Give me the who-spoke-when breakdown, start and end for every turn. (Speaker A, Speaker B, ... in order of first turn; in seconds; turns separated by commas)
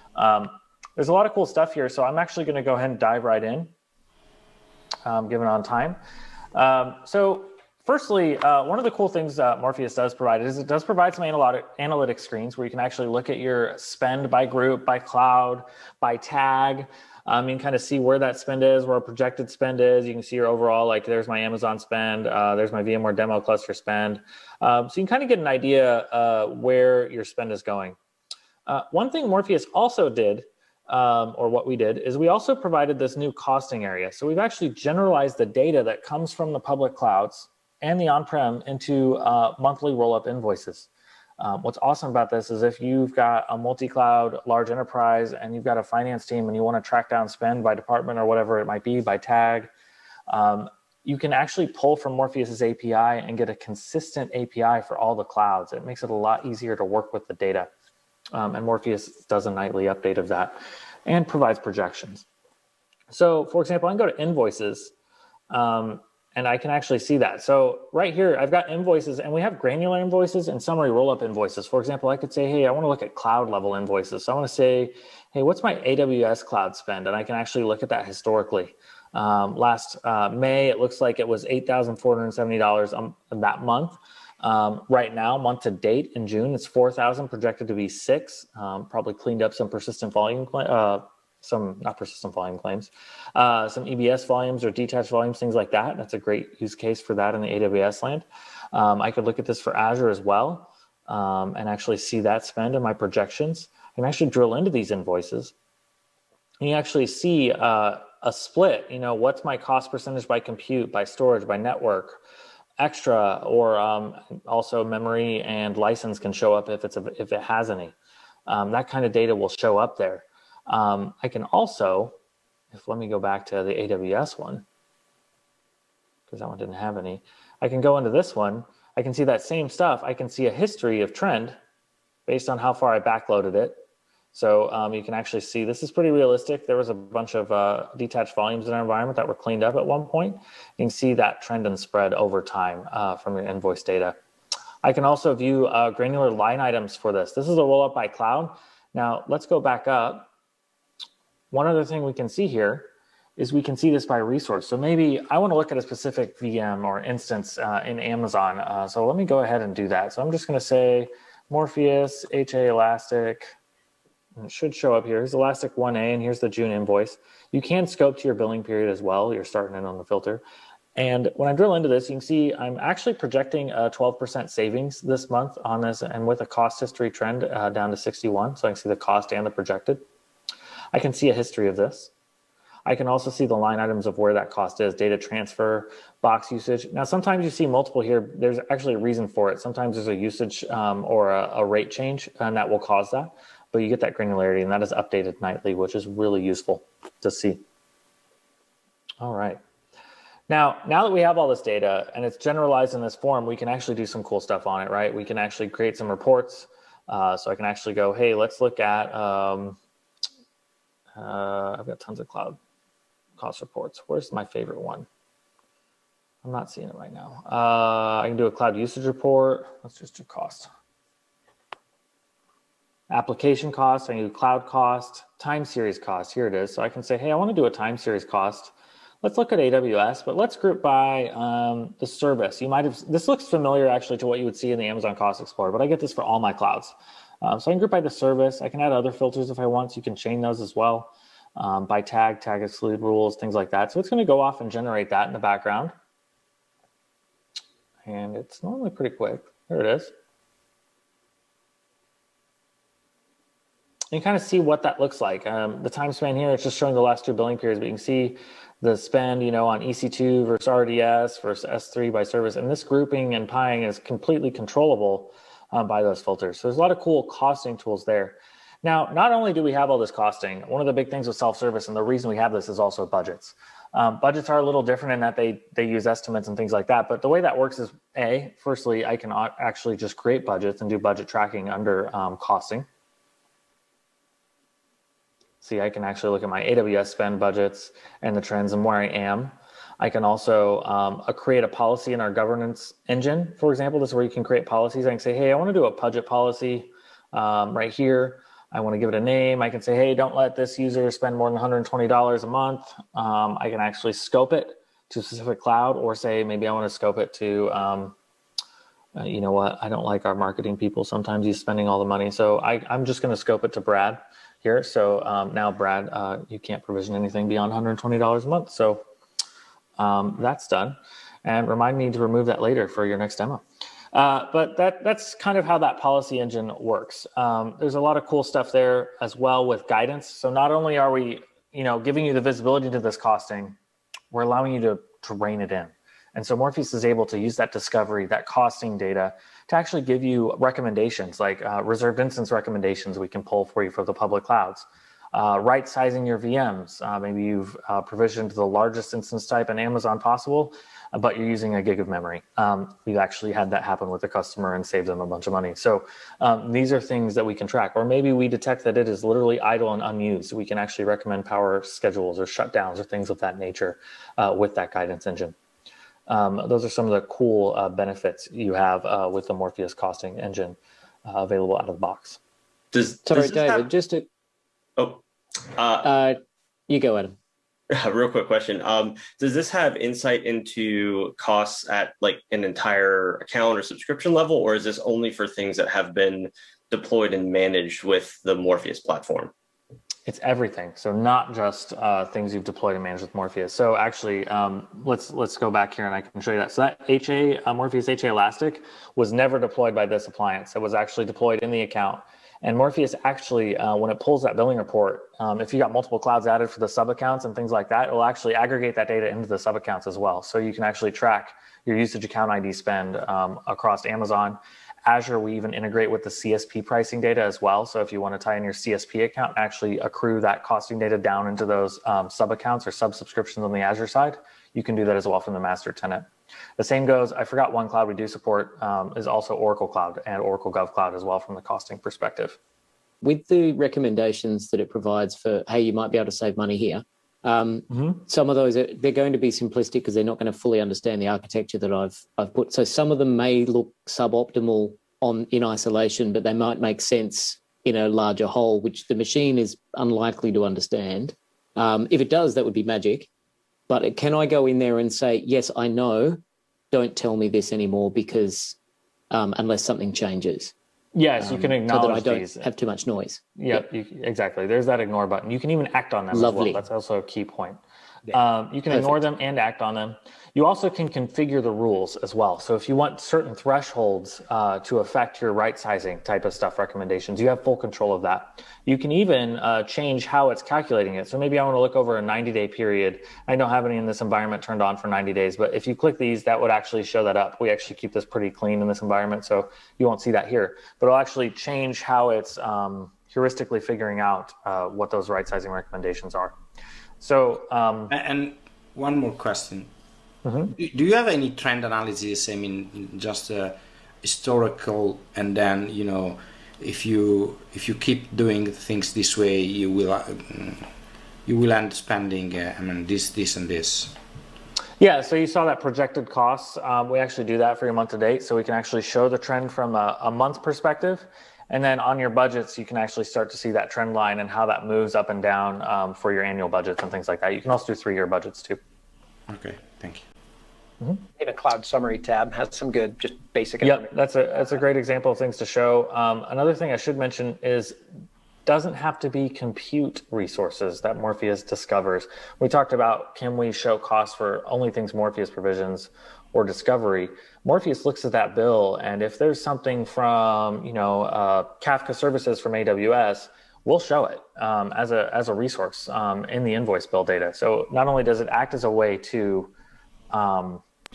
Speaker A: 0.2-3.7, Speaker A: 5.1-6.0, Speaker A: 6.5-28.0, Speaker A: 28.7-49.7, Speaker A: 50.3-57.7, Speaker A: 58.3-62.3, Speaker A: 63.1-64.9, Speaker A: 65.5-105.5, Speaker A: 106.6-112.2, Speaker A: 112.8-118.0, Speaker A: 118.5-122.2, Speaker A: 122.7-124.7, Speaker A: 126.3-131.6, Speaker A: 132.3-133.8, Speaker A: 134.3-144.2, Speaker A: 144.8-150.3, Speaker A: 151.5-163.5, Speaker A: 164.4-170.4, Speaker A: 171.0-180.0, Speaker A: 180.9-182.1, Speaker A: 182.9-197.6, Speaker A: 199.2-199.6, Speaker A: 200.5-209.8, Speaker A: 211.2-212.6, Speaker A: 213.4-215.1, Speaker A: 216.4-220.7, Speaker A: 223.1-245.9, Speaker A: 248.1-250.1, Speaker A: 254.1-282.9, Speaker A: 285.6-308.2, Speaker A: 309.2-319.0, Speaker A: 320.0-323.6, Speaker A: 324.1-333.8, Speaker A: 334.3-365.6, Speaker A: 366.3-372.4, Speaker B: 372.9-373.9, Speaker C: 373.2-374.3, Speaker B: 375.8-376.1, Speaker C: 376.0-376.4, Speaker C: 376.9-377.4, Speaker B: 378.0-389.5, Speaker A: 390.3-426.3, Speaker A: 426.8-432.6, Speaker C: 433.2-453.3, Speaker A: 437.9-438.2, Speaker C: 453.9-458.8, Speaker C: 459.3-460.7, Speaker A: 461.1-462.7, Speaker C: 461.4-463.8, Speaker A: 463.6-467.8, Speaker C: 466.3-466.8, Speaker A: 468.3-496.6, Speaker C: 468.9-469.2, Speaker A: 497.2-498.1, Speaker D: 498.1-499.9, Speaker A: 500.4-500.7, Speaker D: 500.7-510.9, Speaker D: 511.4-514.2, Speaker A: 515.0-528.8, Speaker D: 529.5-530.2, Speaker E: 531.4-534.1, Speaker A: 533.8-538.0, Speaker A: 538.7-559.7, Speaker A: 560.3-560.8